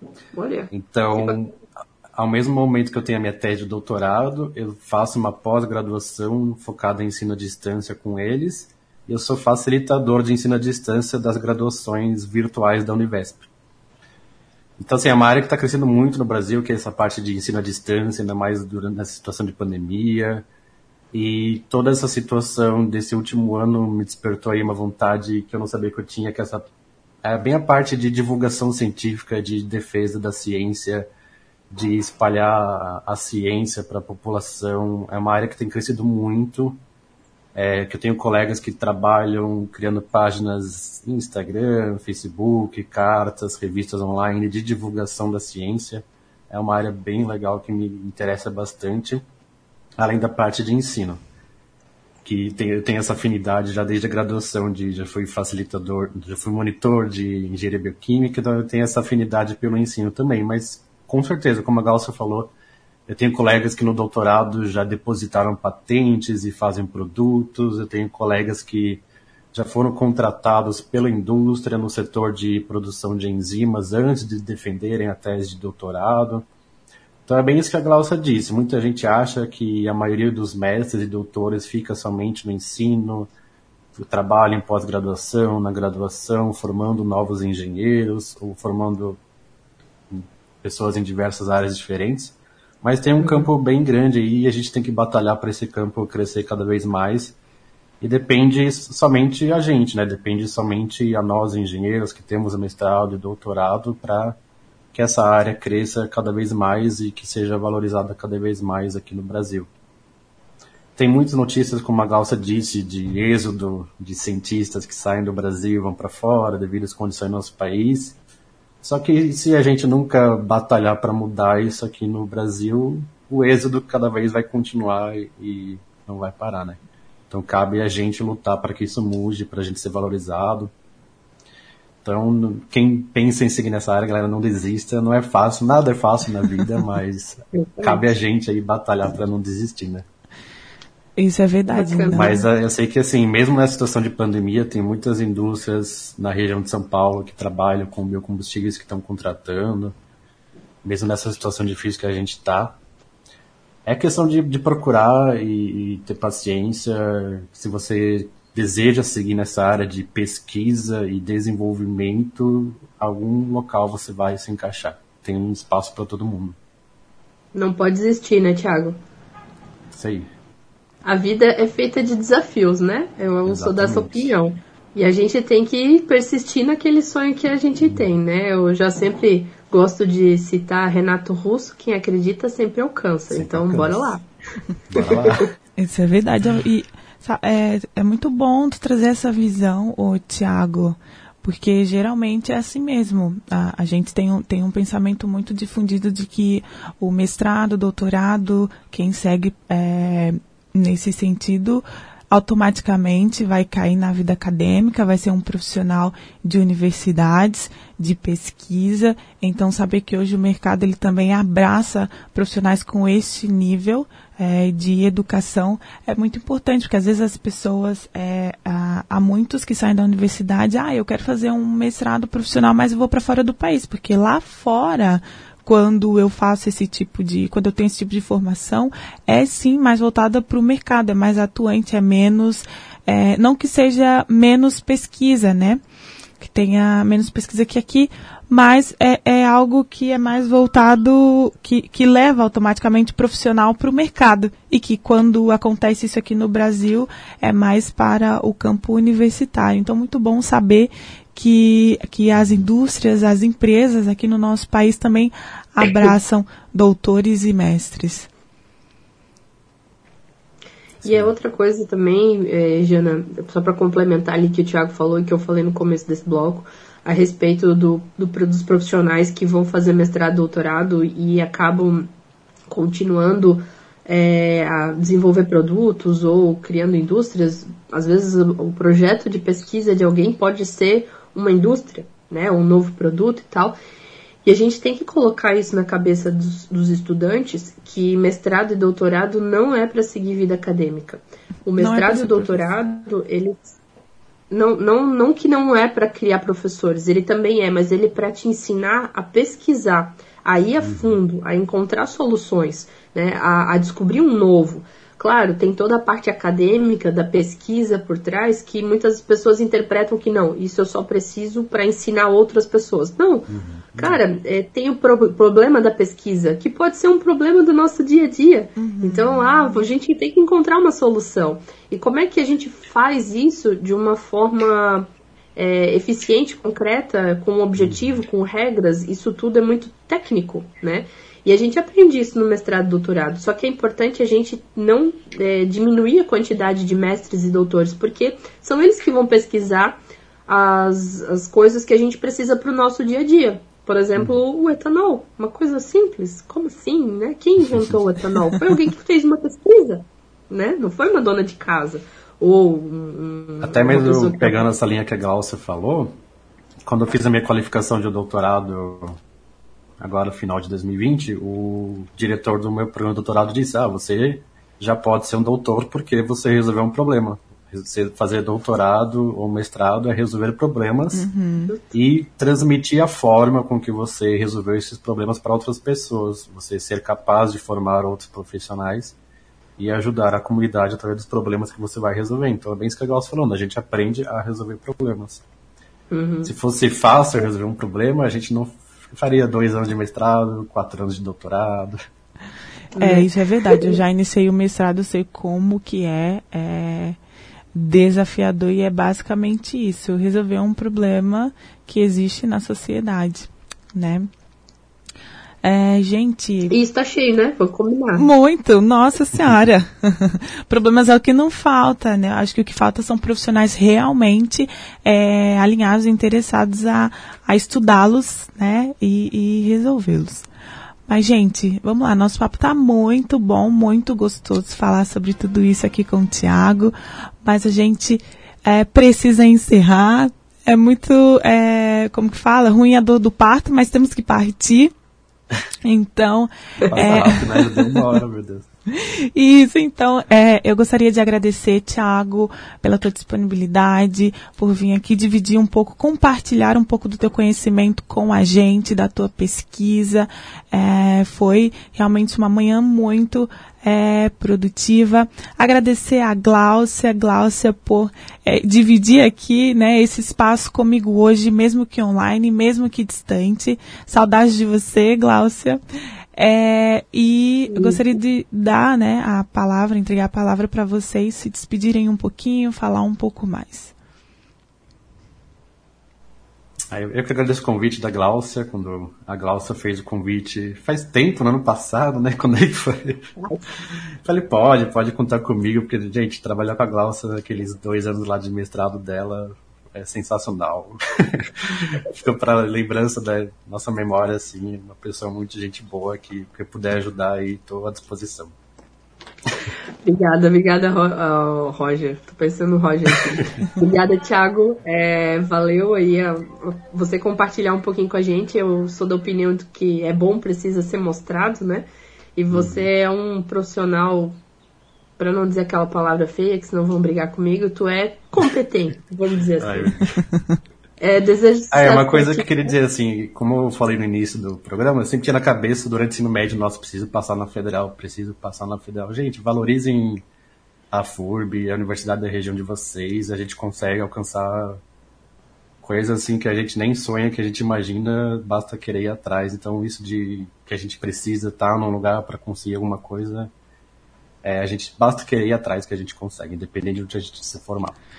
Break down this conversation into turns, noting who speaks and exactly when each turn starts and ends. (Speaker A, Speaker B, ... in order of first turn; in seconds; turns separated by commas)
Speaker A: 0.3-1.4, Speaker B: 0.7-1.5, Speaker B: 2.1-13.5, Speaker B: 14.8-20.4, Speaker B: 21.1-26.7, Speaker B: 27.2-31.1, Speaker B: 31.7-36.8, Speaker B: 37.5-49.2, Speaker B: 50.0-51.2, Speaker B: 52.2-62.5, Speaker B: 63.1-76.5, Speaker B: 77.3-83.3, Speaker B: 83.9-89.2, Speaker B: 90.1-97.4, Speaker A: 93.2-93.5, Speaker B: 98.0-104.4, Speaker B: 104.9-109.7, Speaker B: 111.0-118.2, Speaker B: 118.8-130.7, Speaker B: 132.0-140.1, Speaker A: 137.5-138.0, Speaker C: 141.2-142.4, Speaker A: 141.7-142.4, Speaker B: 142.1-149.9, Speaker B: 150.8-152.8, Speaker B: 153.8-166.6, Speaker A: 167.5-169.0, Speaker B: 169.9-170.3, Speaker A: 171.0-184.2, Speaker B: 173.4-174.3, Speaker B: 177.8-178.1, Speaker B: 183.3-184.2, Speaker B: 184.9-185.5, Speaker A: 184.9-185.5, Speaker C: 185.8-235.8, Speaker C: 236.4-258.3, Speaker B: 252.3-252.6, Speaker B: 261.0-261.3, Speaker A: 261.0-272.1, Speaker A: 272.7-283.8, Speaker A: 284.4-293.6, Speaker C: 291.8-292.8, Speaker A: 294.5-354.6, Speaker B: 300.8-301.2, Speaker B: 313.5-314.2, Speaker C: 318.8-319.8, Speaker B: 327.8-328.2, Speaker B: 353.6-356.2, Speaker B: 356.8-359.2, Speaker B: 360.0-371.3, Speaker C: 371.1-371.8, Speaker B: 371.9-379.1, Speaker B: 379.8-385.4, Speaker A: 386.1-386.5, Speaker B: 386.4-392.0, Speaker A: 392.9-394.0, Speaker C: 393.0-397.2, Speaker C: 397.7-404.3, Speaker C: 405.6-406.7, Speaker A: 406.7-408.3, Speaker C: 408.2-420.5, Speaker C: 421.1-434.9, Speaker C: 435.8-437.7, Speaker B: 436.9-438.7, Speaker C: 438.9-465.8, Speaker C: 466.4-473.9, Speaker A: 467.7-468.0, Speaker B: 476.9-483.3, Speaker A: 483.4-483.7, Speaker B: 484.2-498.5, Speaker A: 500.0-514.4, Speaker B: 512.5-512.9, Speaker A: 515.2-520.0, Speaker B: 519.6-520.2, Speaker A: 521.0-522.7, Speaker B: 521.7-530.2, Speaker B: 530.9-534.8, Speaker B: 535.8-543.5, Speaker B: 544.4-548.0